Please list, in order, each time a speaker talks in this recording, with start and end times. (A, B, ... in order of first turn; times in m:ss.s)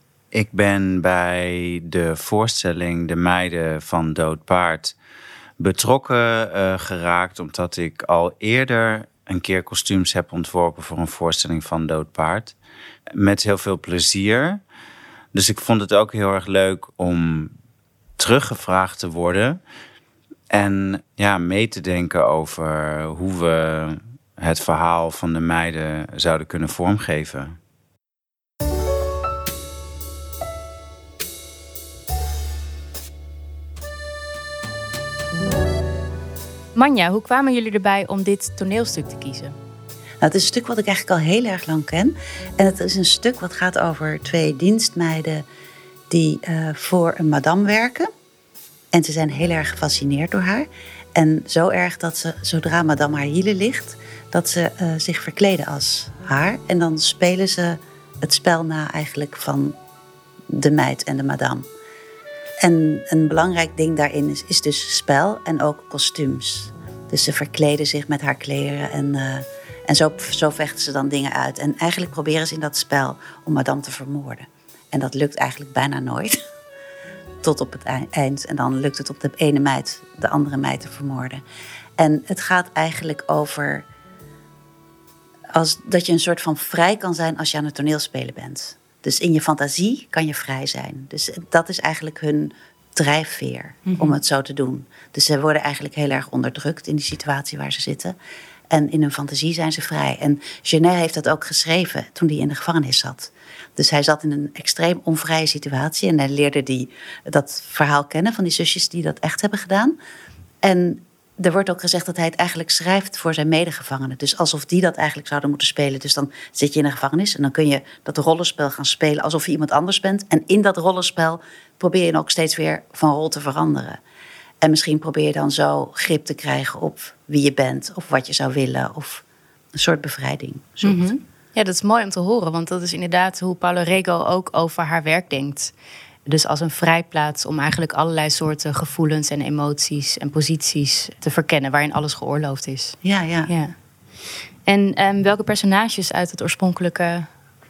0:00.3-0:05.0 A
0:05.6-0:12.6 A
0:13.1-0:14.6 A
0:15.3-0:17.5 A
0:18.2-0:19.6 A
0:20.5-0:27.6 A
0:36.8-0:39.6 B
0:40.2-0:45.4 C
0:46.1-0:48.1 C
0:48.9-0:59.8 C
1:00.5-1:01.7 C
1:02.6-1:16.4 C
1:17.4-1:21.4 C
1:22.0-1:23.9 C
1:25.5-1:38.2 C
1:33.9-1:34.2 B
1:38.7-1:50.0 C
1:50.6-2:04.0 C
2:04.6-2:09.2 C
2:09.8-2:11.1 C
2:10.8-2:15.7 B
2:16.2-2:23.8 B
2:23.0-2:23.5 C
2:24.7-2:27.3 B